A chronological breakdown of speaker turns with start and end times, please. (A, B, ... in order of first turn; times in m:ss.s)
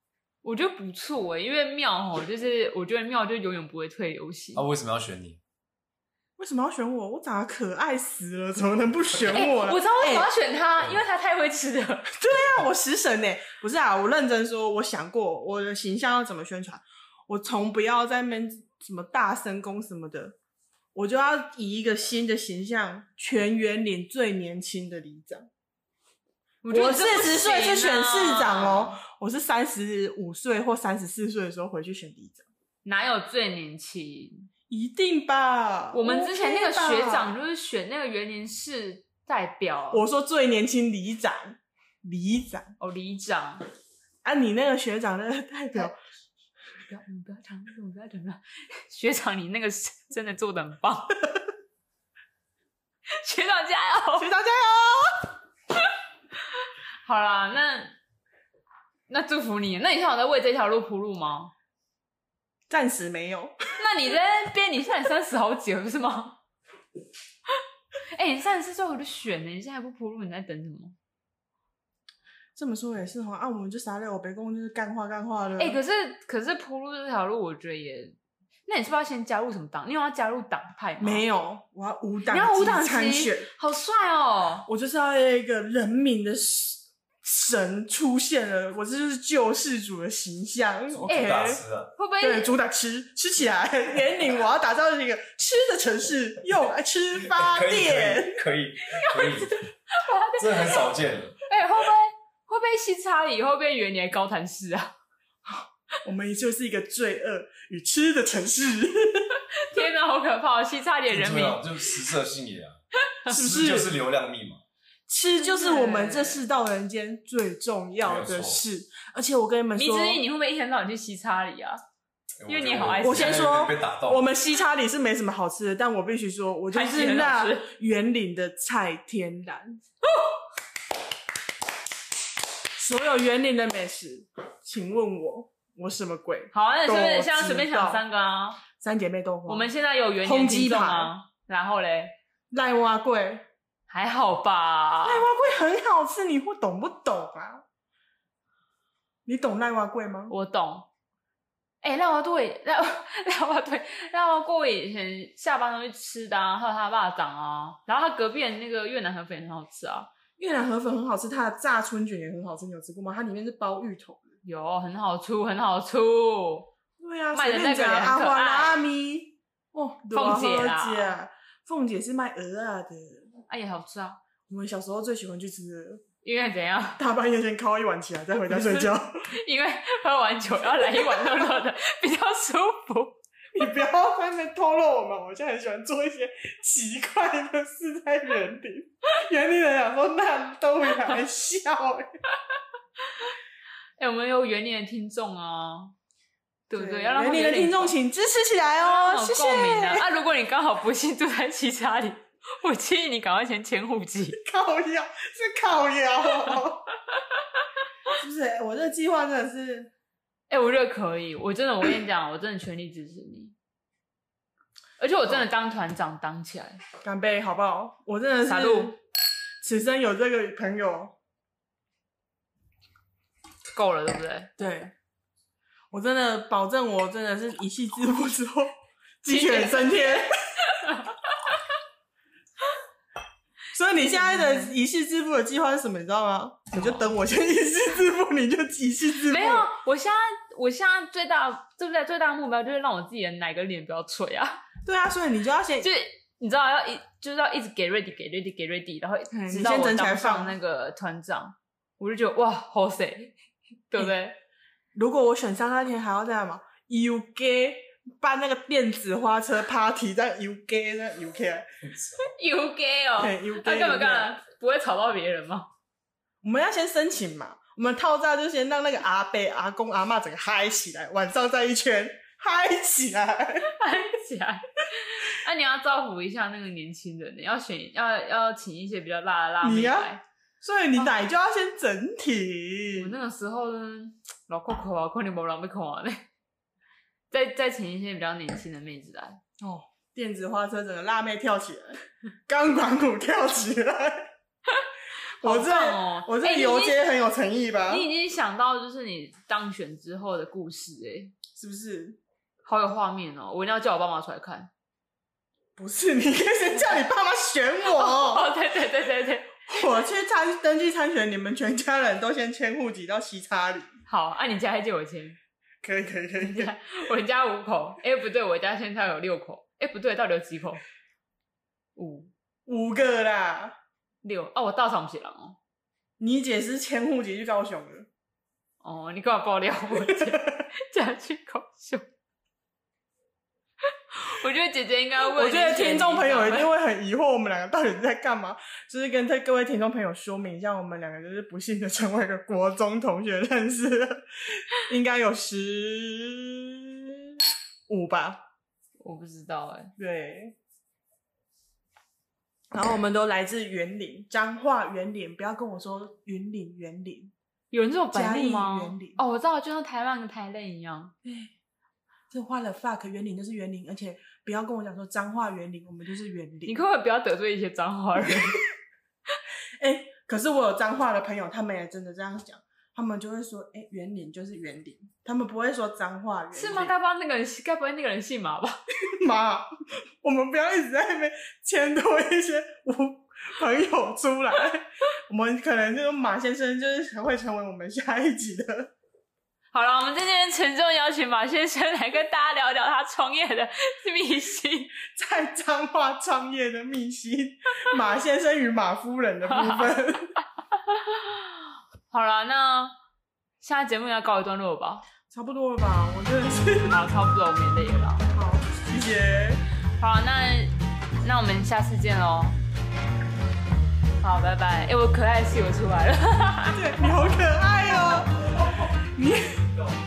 0:00.4-0:04.6 A
0:04.6-0:05.4 B
0:06.4-0:10.3 C
0:09.3-0:12.1 A
0:12.2-0:20.4 C
0:21.0-0:25.5 C
0:26.6-0:29.0 A
0:26.7-0:32.5 C
0:32.8-0:34.5 A
0:34.7-0:37.3 C
0:35.9-0:40.0 A
0:39.9-0:42.7 C
0:42.8-0:43.6 A
0:44.2-0:46.0 C
0:46.8-0:51.2 A
0:53.2-0:54.3 A
0:54.2-0:55.3 C
0:56.6-0:58.0 A
0:59.1-1:01.5 A
1:02.7-1:03.6 C
1:03.8-1:06.4 A
1:08.1-1:11.0 A
1:12.6-1:15.8 C
1:15.6-1:18.2 A
1:18.7-1:21.2 A
1:21.0-1:23.5 C
1:22.3-1:24.7 A
1:24.7-1:31.6 C
1:30.9-1:31.9 B
1:31.1-1:32.5 A
1:32.2-1:38.5 C
1:37.3-1:39.7 B
1:39.0-1:40.9 A
1:40.3-1:41.4 B
1:41.5-1:44.9 A
1:45.5-1:49.3 C
1:49.5-1:51.7 A
1:51.1-1:52.8 B
1:53.3-1:54.6 B
1:53.3-1:54.0 C
1:55.1-2:00.2 C
1:55.4-1:56.4 A
1:58.0-1:58.6 B
1:59.8-2:01.8 A
2:02.4-2:04.3 B
2:02.5-2:03.6 A
2:03.0-2:09.8 C
2:06.7-2:07.7 A
2:12.8-2:18.0 C
2:16.5-2:18.6 A
2:18.8-2:19.7 C
2:19.5-2:22.2 A
2:20.2-2:21.1 C
2:22.5-2:23.5 C
2:23.9-2:25.3 A
2:25.0-2:27.6 C
2:29.3-2:30.3 C
2:30.3-2:30.9 A
2:31.8-2:40.1 A
2:40.4-2:44.2 C
2:44.4-2:46.7 A
2:47.0-2:53.3 C
2:47.3-2:48.8 A
2:50.1-2:51.1 A
2:53.5-2:54.2 A
2:54.5-2:56.0 C
2:56.2-2:57.0 A
2:57.0-2:59.2 C
2:58.5-3:03.2 A
3:01.0-3:01.3 C
3:03.5-3:12.1 C
3:14.0-3:16.0 A
3:16.7-3:17.9 A
3:16.7-3:20.1 C
3:18.8-3:24.4 A
3:24.4-3:26.9 C
3:28.1-3:29.9 C
3:30.5-3:33.6 A
3:35.0-3:36.8 A
3:37.0-3:39.0 C
3:38.5-3:39.0 A
3:39.6-3:41.2 C
3:43.8-3:44.5 A
3:44.6-3:44.9 C
3:45.9-3:50.3 C
3:49.3-3:51.6 A
3:53.7-3:59.7 C
3:54.0-3:54.7 A
3:59.3-4:04.6 A
4:04.8-4:05.9 C
4:05.8-4:13.4 A
4:09.3-4:10.6 C
4:13.9-4:14.4 A
4:14.9-4:21.7 C
4:22.2-4:25.7 A
4:23.2-4:24.3 C
4:26.4-4:33.7 C
4:33.6-4:40.2 A
4:39.6-4:40.1 C
4:40.6-4:43.1 C
4:43.0-4:46.3 A
4:47.3-4:49.4 A
4:49.6-4:54.3 C
4:55.4-4:58.1 C
4:55.4-4:57.1 A
4:57.9-5:01.3 A
5:01.5-5:02.2 C
5:02.7-5:04.7 A
5:05.8-5:08.5 C
5:07.9-5:09.6 A
5:09.7-5:13.9 C
5:14.1-5:15.4 A
5:15.8-5:16.7 C
5:16.4-5:20.8 A
5:22.0-5:22.3 A
5:22.7-5:23.8 C
5:24.2-5:25.6 A
5:26.2-5:28.1 C
5:28.8-5:32.1 A
5:29.9-5:30.3 C
5:34.1-5:36.7 A
5:35.3-5:47.2 C
5:47.9-5:48.4 C
5:49.0-5:49.9 A
5:50.0-5:50.6 C
5:52.7-5:57.3 C
5:57.7-6:01.1 A
5:58.1-5:59.2 C
6:01.2-6:01.5 C
6:02.3-6:06.8 C
6:06.6-6:08.6 A
6:08.2-6:08.6 C
6:09.8-6:16.9 C
6:16.5-6:18.8 A
6:19.0-6:19.7 C
6:20.2-6:28.9 C
6:29.7-6:35.0 A
6:35.0-6:40.3 C
6:39.5-6:39.9 A
6:40.9-6:41.6 A
6:42.1-6:42.9 A
6:43.6-6:45.0 A
6:45.3-6:47.0 C
6:46.9-6:48.3 A
6:48.3-6:49.6 C
6:50.0-6:52.6 A
6:54.2-6:57.1 A
6:56.7-6:59.7 C